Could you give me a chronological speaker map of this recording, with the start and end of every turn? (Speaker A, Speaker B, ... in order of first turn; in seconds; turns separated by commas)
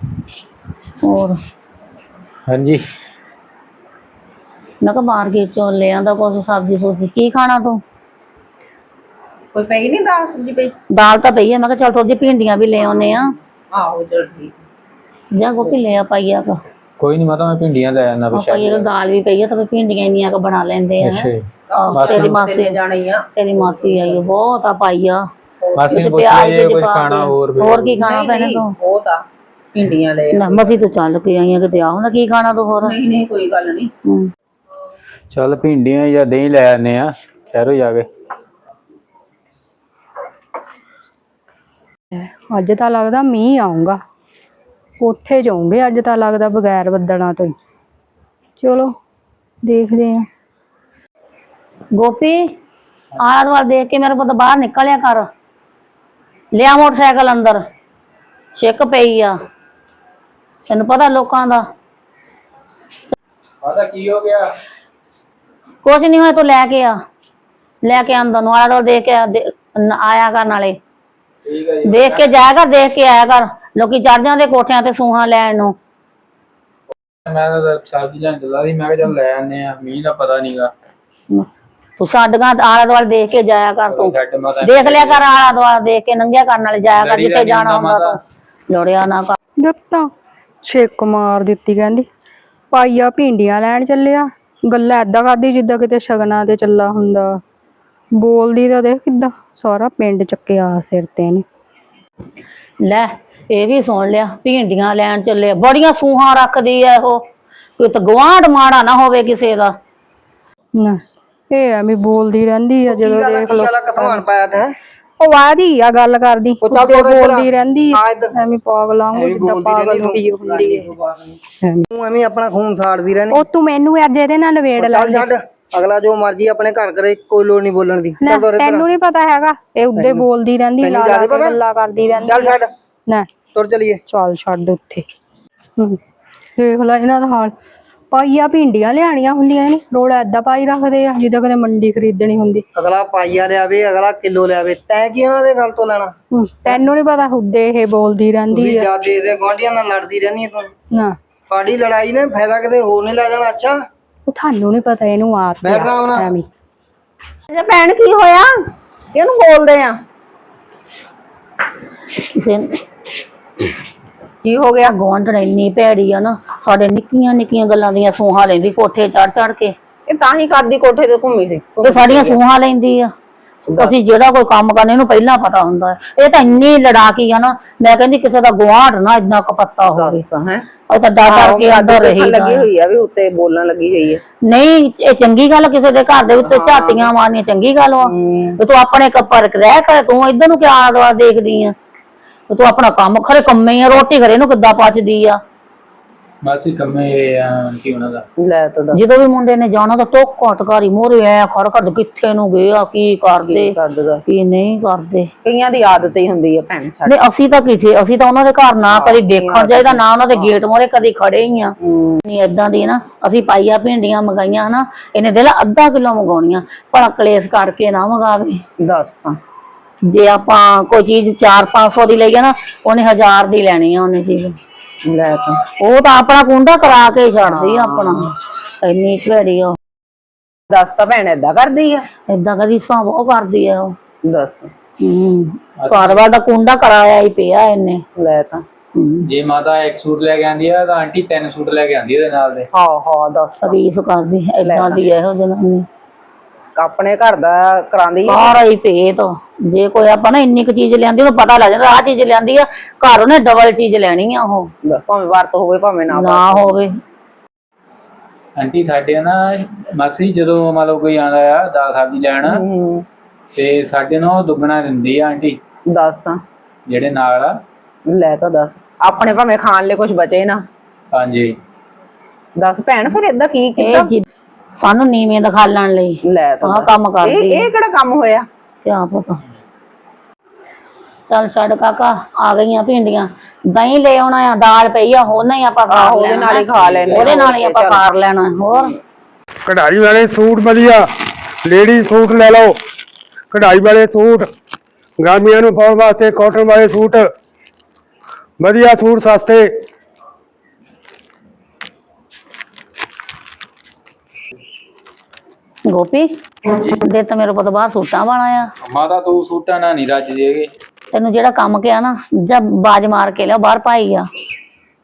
Speaker A: 1.0-1.4, Speaker B: 2.5-2.8, Speaker A: 4.8-7.8, Speaker C: 9.5-10.7, Speaker A: 10.9-13.3, Speaker C: 12.8-14.6, Speaker A: 15.3-16.6, Speaker B: 17.0-18.9, Speaker A: 18.3-22.8, Speaker B: 21.0-22.4, Speaker C: 21.7-24.3, Speaker A: 23.4-25.2, Speaker B: 25.7-28.0, Speaker A: 25.9-28.7, Speaker C: 28.0-30.8, Speaker A: 30.3-33.0, Speaker C: 32.8-33.9, Speaker B: 35.3-38.1, Speaker D: 42.1-44.0, Speaker D: 45.0-47.5, Speaker D: 48.6-48.9, Speaker D: 49.6-50.2, Speaker A: 51.9-52.5, Speaker A: 53.2-55.3, Speaker A: 56.5-57.6, Speaker A: 58.5-59.4, Speaker A: 60.7-61.6, Speaker B: 63.6-64.5, Speaker A: 65.8-67.0, Speaker A: 67.8-70.8, Speaker B: 71.5-72.3, Speaker A: 71.9-75.7, Speaker B: 77.2-80.7, Speaker A: 82.0-88.2, Speaker B: 83.9-85.3, Speaker B: 87.0-88.1, Speaker A: 88.7-89.4, Speaker D: 89.6-90.1, Speaker D: 90.6-92.0, Speaker D: 92.7-97.4, Speaker D: 98.2-101.4, Speaker A: 102.8-107.2, Speaker A: 107.8-109.7, Speaker D: 110.8-114.2, Speaker E: 112.9-114.7, Speaker D: 115.2-120.9, Speaker E: 116.6-118.3, Speaker E: 119.1-121.4, Speaker E: 121.9-123.4, Speaker D: 123.3-125.3, Speaker E: 124.8-128.8, Speaker D: 128.2-133.3, Speaker E: 129.9-130.2, Speaker E: 130.8-131.6, Speaker E: 132.2-132.7, Speaker E: 133.5-134.0, Speaker D: 134.1-135.0, Speaker D: 136.6-137.5, Speaker D: 138.1-142.6, Speaker E: 142.7-146.1, Speaker D: 146.3-148.9, Speaker E: 148.5-150.7, Speaker E: 151.5-153.8, Speaker D: 154.3-156.4, Speaker E: 155.6-156.3, Speaker C: 157.5-160.0, Speaker A: 162.2-162.8, Speaker C: 164.4-164.9, Speaker A: 164.8-169.7, Speaker C: 170.1-172.4, Speaker A: 171.8-173.1, Speaker A: 173.6-180.2, Speaker C: 173.7-174.0, Speaker C: 179.8-180.7, Speaker A: 180.9-182.7, Speaker C: 181.2-184.2, Speaker A: 184.4-191.7, Speaker C: 186.4-187.1, Speaker C: 188.0-188.6, Speaker A: 192.5-195.4, Speaker B: 196.4-198.2, Speaker C: 198.4-199.0, Speaker A: 198.9-205.3, Speaker C: 203.4-204.2, Speaker C: 205.4-207.2, Speaker A: 207.1-211.7, Speaker C: 208.9-210.6, Speaker C: 211.8-212.2, Speaker A: 212.2-218.6, Speaker C: 218.8-219.4, Speaker A: 220.0-224.5, Speaker C: 225.0-225.6, Speaker A: 225.8-229.8, Speaker C: 227.4-228.3, Speaker C: 230.7-232.1, Speaker A: 232.3-233.9, Speaker C: 234.2-234.7, Speaker A: 235.0-238.0, Speaker B: 235.8-236.2, Speaker C: 238.2-238.6, Speaker A: 238.9-239.3, Speaker B: 239.3-242.7, Speaker C: 242.7-243.8, Speaker A: 243.6-245.8, Speaker C: 244.6-245.1, Speaker C: 246.8-248.5, Speaker A: 248.2-254.7, Speaker C: 254.8-256.7, Speaker A: 256.1-256.9, Speaker B: 258.6-262.6, Speaker C: 262.4-263.0, Speaker B: 263.5-265.6, Speaker C: 265.9-266.4, Speaker B: 266.9-267.5, Speaker C: 268.1-270.6, Speaker B: 271.1-271.5, Speaker C: 272.6-274.1, Speaker A: 273.8-274.2, Speaker A: 274.8-277.7, Speaker C: 276.2-278.5, Speaker A: 278.8-279.4, Speaker A: 281.3-288.9, Speaker C: 285.9-288.0, Speaker B: 286.7-287.4, Speaker F: 289.6-291.1, Speaker F: 291.6-292.8, Speaker F: 293.5-294.5, Speaker F: 295.2-297.2, Speaker F: 298.6-299.7, Speaker A: 305.9-308.7, Speaker B: 308.8-310.7, Speaker A: 311.1-314.3